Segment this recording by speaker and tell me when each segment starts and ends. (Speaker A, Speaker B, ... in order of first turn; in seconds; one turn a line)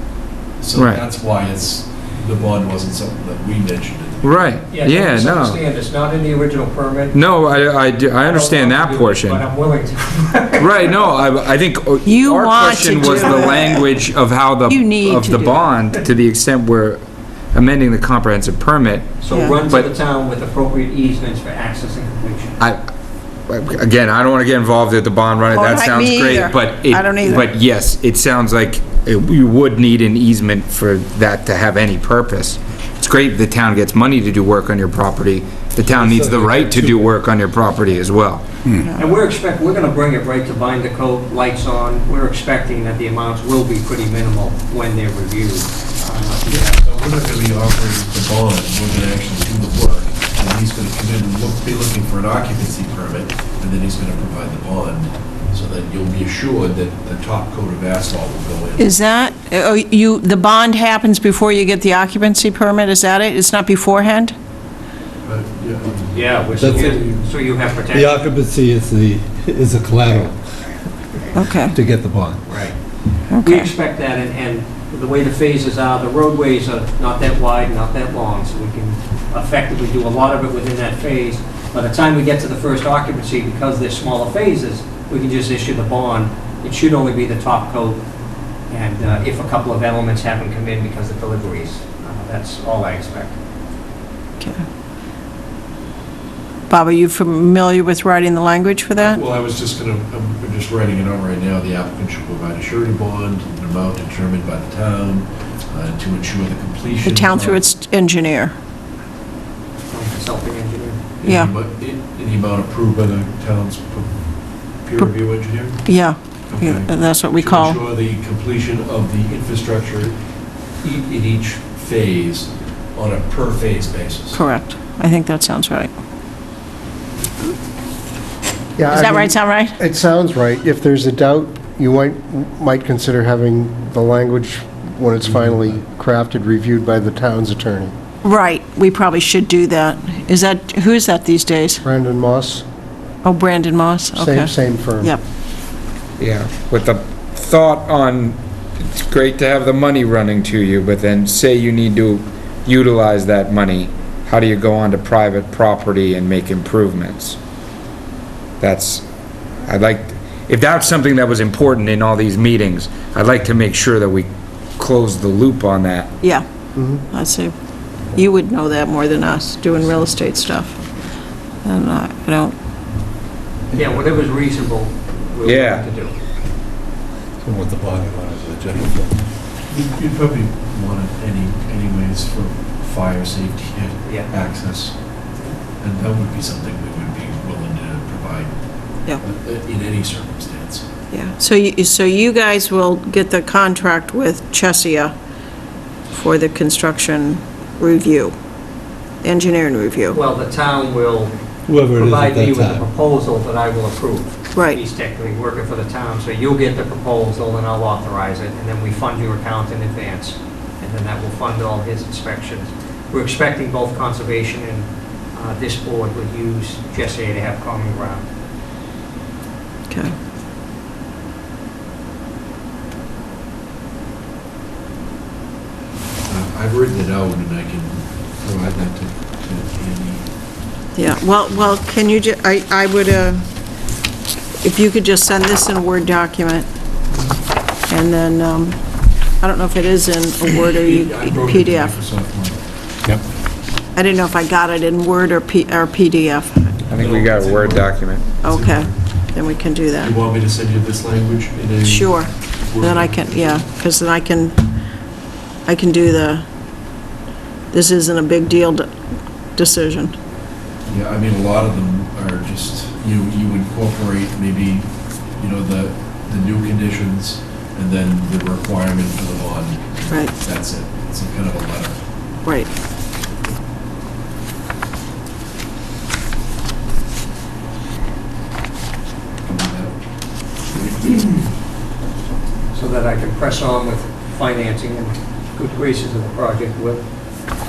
Speaker A: 0.6-4.5
Speaker B: 0.7-1.0
Speaker B: 4.2-5.6
Speaker C: 4.7-7.2
Speaker B: 7.1-9.4
Speaker C: 8.2-11.2
Speaker B: 10.6-17.0
Speaker D: 12.0-14.0
Speaker D: 14.7-15.7
Speaker B: 17.5-19.9
Speaker C: 19.2-22.5
Speaker D: 19.3-19.6
Speaker B: 23.5-38.4
Speaker D: 25.5-27.5
Speaker E: 35.8-37.2
Speaker D: 38.8-39.0
Speaker C: 38.9-46.8
Speaker A: 46.6-58.9
Speaker D: 58.8-64.3
Speaker A: 65.2-67.1
Speaker C: 66.1-68.2
Speaker E: 66.5-67.0
Speaker E: 67.9-70.4
Speaker D: 71.3-71.7
Speaker E: 71.7-72.4
Speaker D: 73.3-73.7
Speaker C: 73.4-88.0
Speaker C: 88.7-93.3
Speaker D: 96.7-99.2
Speaker A: 99.0-107.6
Speaker D: 107.0-108.5
Speaker C: 109.9-111.0
Speaker A: 111.2-114.1
Speaker D: 111.2-111.5
Speaker A: 114.8-115.8
Speaker D: 115.8-117.8
Speaker A: 116.5-120.2
Speaker A: 120.8-124.4
Speaker D: 124.3-125.9
Speaker F: 128.8-137.9
Speaker D: 128.9-129.7
Speaker D: 138.2-141.8
Speaker F: 141.8-142.6
Speaker D: 143.2-145.2
Speaker F: 144.1-145.1
Speaker B: 146.2-157.4
Speaker B: 158.6-159.0
Speaker B: 159.7-166.1
Speaker F: 166.8-167.0
Speaker D: 167.1-167.5
Speaker D: 168.1-170.8
Speaker D: 171.6-172.6
Speaker C: 173.7-176.1
Speaker B: 175.4-175.8
Speaker E: 177.4-179.2
Speaker A: 179.7-184.9
Speaker C: 184.0-184.3
Speaker A: 185.8-188.6
Speaker A: 189.2-190.9
Speaker D: 191.1-195.1
Speaker D: 196.1-198.3
Speaker D: 199.2-200.2
Speaker C: 200.1-201.3
Speaker E: 201.7-202.9
Speaker C: 201.9-218.2
Speaker D: 204.5-204.8
Speaker A: 226.3-230.3
Speaker D: 230.9-233.4
Speaker D: 234.6-236.7
Speaker D: 237.9-238.8
Speaker D: 239.4-241.9
Speaker A: 240.7-242.6
Speaker D: 243.9-246.8
Speaker B: 246.9-248.4
Speaker A: 246.9-247.9
Speaker D: 248.4-250.1
Speaker A: 248.4-248.9
Speaker A: 250.0-253.7
Speaker D: 251.8-254.6
Speaker D: 255.7-256.4
Speaker D: 257.7-258.9
Speaker D: 259.6-260.1
Speaker A: 260.9-271.9
Speaker A: 279.4-279.9
Speaker A: 280.8-281.3
Speaker C: 282.7-287.0